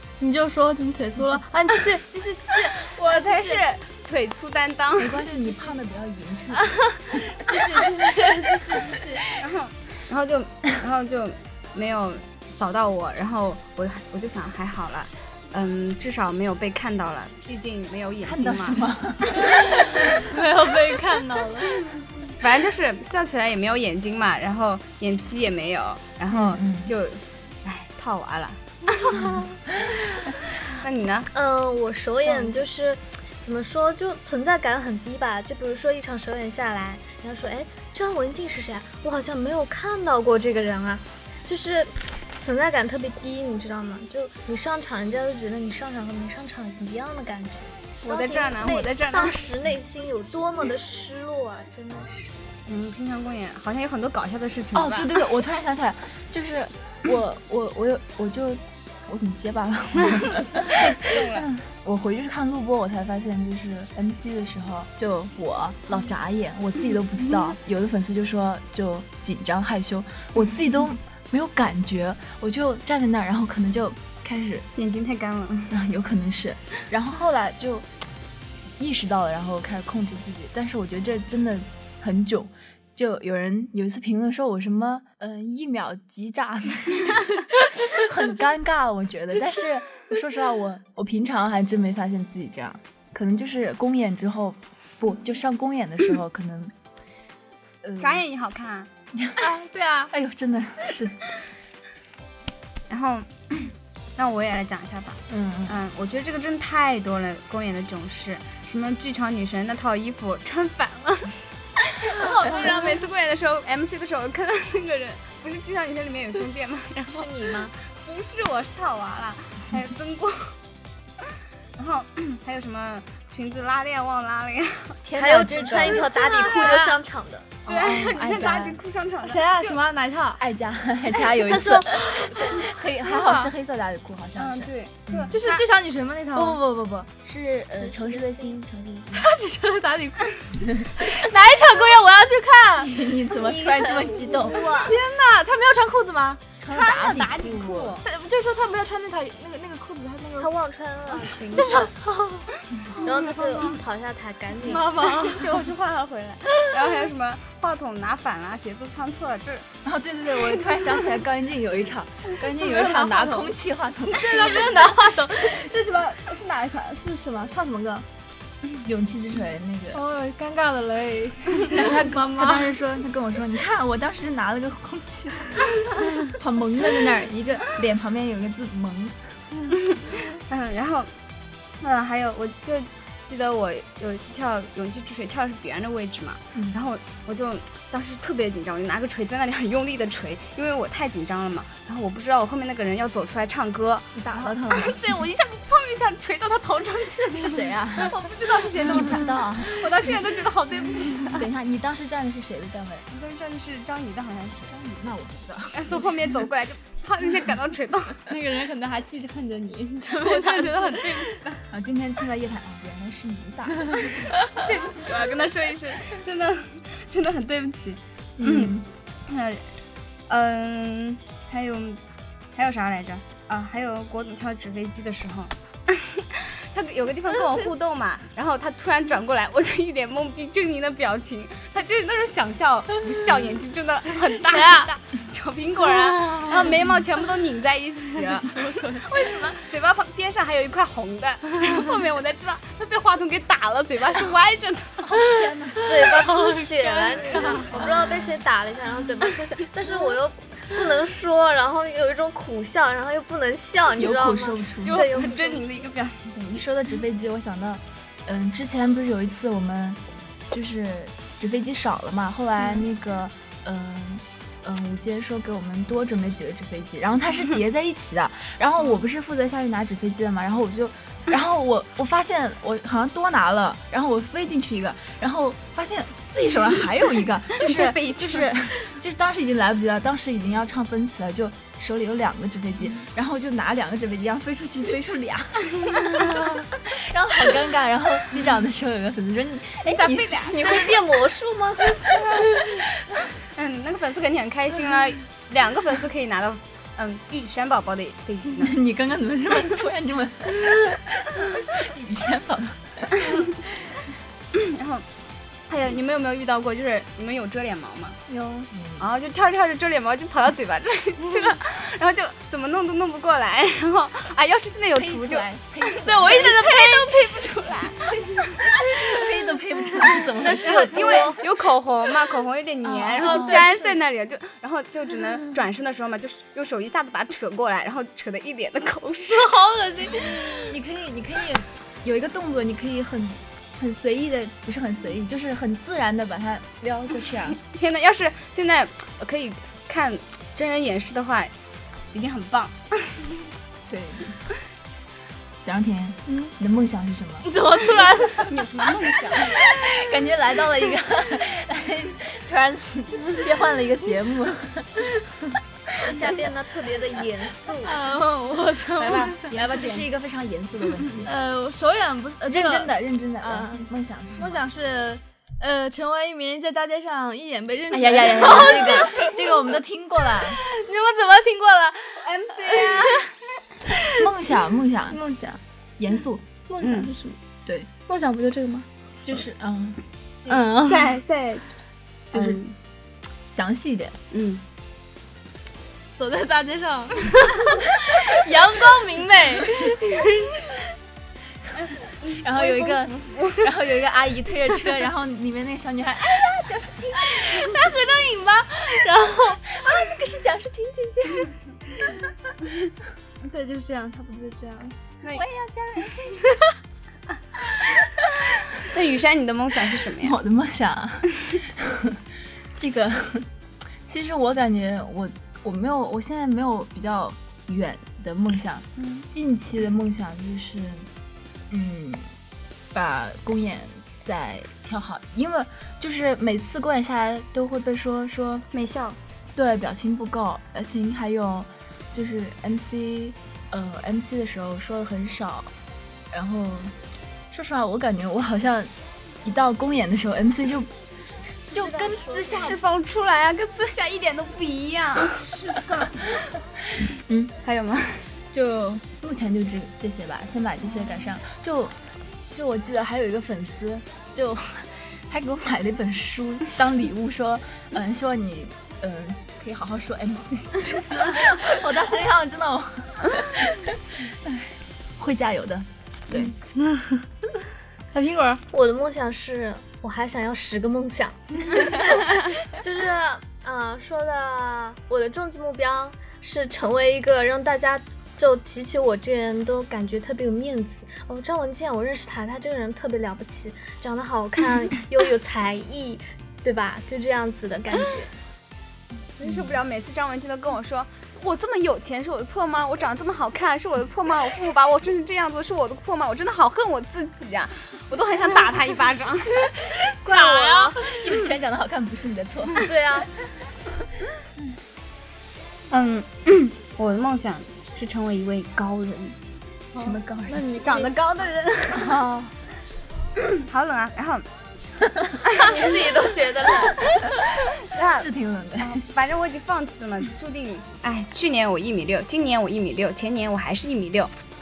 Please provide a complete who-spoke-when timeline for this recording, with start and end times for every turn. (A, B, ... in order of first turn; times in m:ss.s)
0:00.2-0:03.6 A
0:02.8-0:05.2 B
0:05.0-0:07.2 C
0:05.2-0:05.8 A
0:06.5-0:09.3 A
0:09.3-0:18.9 B
0:18.2-0:20.1 C
0:19.4-0:21.8 A
0:22.4-0:29.2 B
0:26.3-0:26.9 C
0:29.2-0:30.0 C
0:30.7-0:31.3 B
0:31.3-0:52.4 D
0:32.3-0:32.6 B
0:48.0-0:49.4 B
0:52.7-0:55.2 B
0:54.7-1:14.6 C
1:00.6-1:01.5 B
1:14.8-1:15.8 B
1:15.7-1:17.9 C
1:18.8-1:36.7 C
1:37.8-1:38.2 C
1:38.0-1:38.9 B
1:39.1-1:39.5 C
1:39.4-1:40.1 A
1:40.1-1:41.2 C
1:42.9-1:51.4 B
1:45.3-1:45.8 C
1:52.0-2:00.6 B
1:52.1-1:52.9 A
1:57.1-1:57.7 D
2:01.8-2:05.0 B
2:05.0-2:06.1 C
2:05.1-2:07.5 D
2:05.8-2:07.0 A
2:06.3-2:06.8 B
2:07.6-2:08.8 C
2:07.7-2:09.8 B
2:09.2-2:10.4 A
2:10.4-2:15.4 C
2:11.4-2:12.6 D
2:12.1-2:13.5 A
2:14.4-2:15.6 B
2:15.3-2:16.6 A
2:16.3-2:19.3 C
2:17.7-2:18.6 D
2:19.1-2:23.1 A
2:20.7-2:21.0 C
2:22.8-2:24.7 C
2:23.4-2:25.0 D
2:23.7-2:24.4 B
2:24.7-2:27.2 A
2:26.6-2:28.0 C
2:26.7-2:28.0 B
2:28.0-2:30.5 A
2:30.4-2:31.9 D
2:31.5-2:33.8 A
2:33.0-2:35.0 D
2:33.1-2:33.7 B
2:34.6-2:35.7 A
2:34.9-2:39.7 B
2:39.8-2:45.0 C
2:42.5-2:43.5 A
2:44.1-2:48.1 A
2:46.0-2:46.6 B
2:48.8-2:50.0 C
2:49.9-2:52.7 A
2:51.6-2:59.2 C
2:59.7-3:01.1 B
3:01.8-3:21.5 B
3:14.1-3:15.2 C
3:17.3-3:18.2 C
3:18.8-3:20.1 C
3:21.3-3:23.1 C
3:23.1-3:24.7 B
3:24.6-3:26.3 C
3:25.7-3:28.3 B
3:28.3-3:31.4 A
3:30.1-3:31.6 B
3:31.7-3:34.3 C
3:33.9-3:34.7 A
3:34.6-3:39.7 B
3:38.4-3:38.8 C
3:40.3-3:42.0 B
3:42.5-4:05.2 B
3:54.4-3:54.9 A
3:56.1-3:56.7 A
3:58.5-3:59.6 A
3:58.6-3:59.0 C
4:05.0-4:06.0 C
4:05.2-4:07.9 A
4:05.8-4:15.6 D
4:07.6-4:08.4 C
4:14.0-4:15.0 C
4:14.8-4:16.4 B
4:16.4-4:20.0 C
4:20.5-4:50.4 C
4:37.6-4:38.6 B
4:49.8-4:50.9 B
4:50.5-4:52.1 D
4:53.5-4:58.8 B
4:58.6-5:03.9 C
5:04.5-5:05.0 B
5:05.7-5:08.2 B
5:08.3-5:08.7 A
5:08.7-5:09.0 C
5:09.0-5:15.5 B
5:14.9-5:16.5 C
5:15.9-5:17.9 A
5:16.2-5:18.8 B
5:18.6-5:21.0 C
5:18.9-5:19.2 A
5:20.1-5:21.4 A
5:20.4-5:21.4 D
5:20.5-5:29.6 B
5:23.0-5:23.7 C
5:23.1-5:24.0 A
5:29.3-5:30.8 A
5:30.7-5:37.6 C
5:37.6-5:41.5 B
5:42.1-5:43.4 B
5:43.9-5:44.4 C
5:45.6-5:47.5 C
5:46.3-5:46.5 A
5:47.4-5:48.6 A
5:48.4-5:49.6 B
5:49.4-5:55.1 C
5:56.0-5:56.5 C
5:56.0-5:57.9 D
5:57.8-5:59.5 A
5:59.0-6:01.3 C
5:59.0-6:00.1 B
6:01.2-6:09.6 A
6:02.4-6:04.6 C
6:07.9-6:10.6 C
6:10.3-6:13.2 A
6:12.2-6:13.3 B
6:14.1-6:15.2 C
6:15.1-6:15.6 A
6:16.0-6:16.4 C
6:16.7-6:17.4 A
6:16.8-6:17.1 B
6:18.0-6:18.9 A
6:19.2-6:20.7 C
6:20.5-6:21.1 A
6:20.9-6:21.6 B
6:22.3-6:22.6 C
6:22.3-6:22.7 B
6:23.5-6:24.2 C
6:24.3-6:24.6 B
6:26.2-6:30.8 A
6:31.8-6:33.7 B
6:32.2-6:38.0 C
6:37.2-6:39.7 A
6:39.7-6:41.5 C
6:43.4-6:44.9 A
6:45.3-6:46.4 C
6:48.8-6:50.4 B
6:50.2-6:52.2 C
6:52.7-6:53.5 C
6:54.0-7:01.1 C
6:59.0-6:59.3 B
7:01.7-7:02.3 C
7:02.9-7:08.7 C
7:08.7-7:09.2 B
7:09.6-7:15.7 C
7:16.3-7:17.0 C
7:17.5-7:18.9 C
7:19.4-7:20.9 C
7:21.7-7:22.8 C
7:21.7-7:22.8 D
7:22.5-7:26.3 B
7:27.2-7:27.5 C
7:27.6-7:28.3 B
7:28.5-7:32.0 C
7:32.5-7:46.5 C
7:46.3-7:47.6 A
7:48.1-7:48.6 A
7:48.7-8:08.3 D
8:09.4-8:19.7 B
8:20.2-8:21.0 D
8:20.3-8:21.0 A
8:21.0-8:22.9 C
8:22.8-8:23.3 D
8:25.9-8:29.4 B
8:29.9-8:32.2 A
8:30.0-8:30.7 C
8:30.8-8:31.9 B
8:31.9-8:32.5 C
8:33.4-8:34.5 B
8:35.5-8:36.0 B
8:35.6-8:37.0 D
8:37.9-8:44.3 B
8:38.1-8:39.1 C